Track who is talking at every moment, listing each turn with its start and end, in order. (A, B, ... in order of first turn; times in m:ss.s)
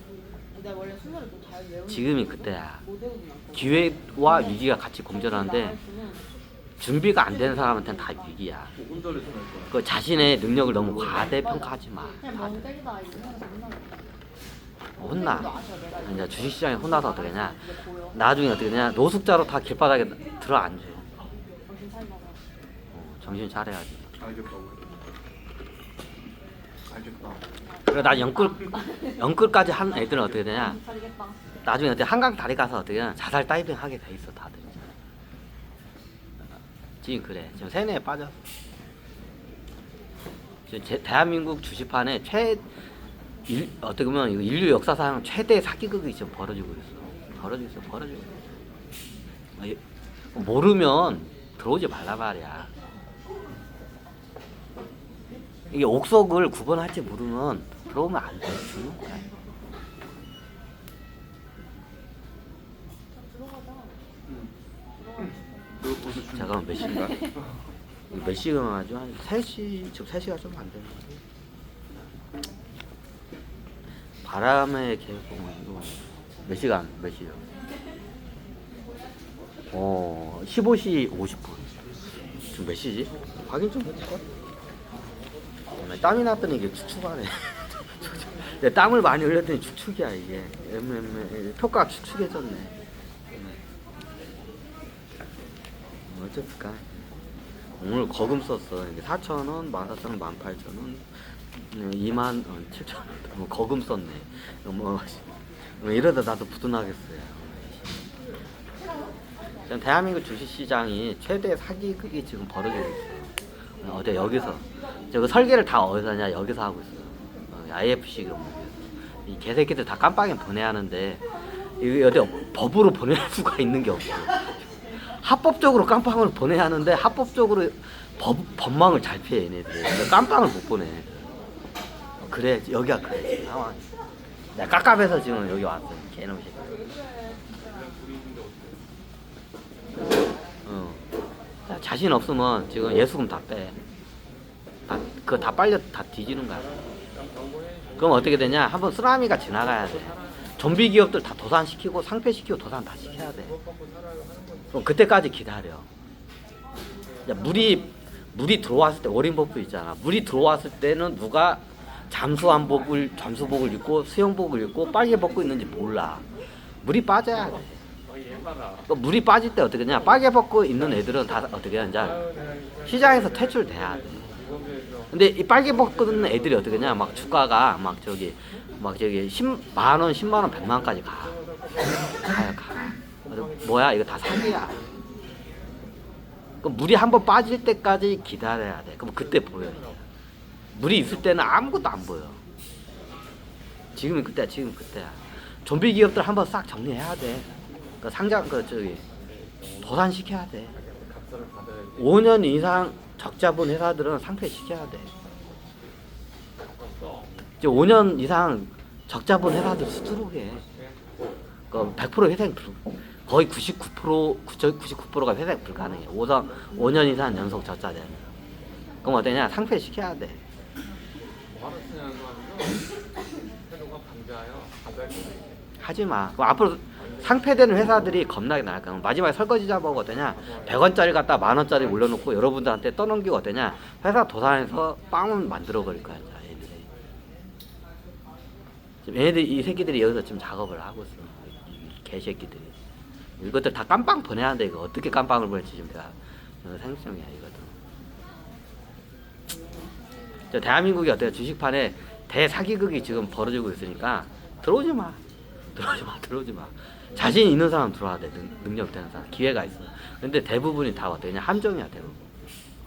0:00.5-0:01.8 A
0:01.9-0:02.8 B
0:03.5-0:05.8 B
0:05.8-0:06.2 A
0:06.8-0:08.7 B
0:08.8-0:09.7 C
0:09.7-0:12.8 B
0:12.8-0:14.1 A
0:15.0-0:21.1 B
0:15.5-0:16.0 A
0:21.7-0:22.4 A
0:22.9-0:24.2 B
0:24.2-0:24.9 C
0:26.9-0:27.4 C
0:27.9-0:30.8 B
0:30.8-0:31.4 A
0:31.6-0:34.9 B
0:36.5-0:38.4 B
0:40.7-0:42.7 B
0:43.4-0:48.4 B
0:50.3-0:52.7 B
0:55.7-0:59.3 B
1:03.2-1:04.0 A
1:05.8-1:06.4 C
1:06.3-1:07.3 B
1:08.1-1:11.2 B
1:14.2-1:17.4 B
1:19.7-1:21.6 B
1:22.5-1:24.2 B
1:25.7-1:32.7 B
1:33.3-1:33.6 B
1:36.0-1:37.0 B
1:37.8-1:48.0 B
1:49.6-2:11.3 B
2:12.2-2:13.8 B
2:14.5-2:16.8 B
2:20.6-2:21.0 B
2:21.6-2:23.8 B
2:24.9-2:26.7 B
2:28.0-2:33.6 B
2:34.7-2:35.9 B
2:37.2-2:46.2 B
2:46.8-2:47.8 B
2:48.9-2:52.2 B
2:52.8-2:54.4 B
2:55.1-3:01.4 B
3:02.2-3:04.8 B
3:06.6-3:10.0 B
3:10.7-3:12.4 B
3:13.9-3:17.5 B
3:18.0-3:19.0 B
3:19.8-3:20.8 B
3:22.0-3:25.1 B
3:27.6-3:30.6 B
3:31.7-3:38.3 B
3:39.0-3:40.4 B
3:41.6-3:42.7 C
3:43.8-3:44.8 C
3:45.8-3:56.9 B
3:59.0-4:02.7 B
4:03.4-4:07.8 B
4:10.5-4:15.2 B
4:15.7-4:22.2 B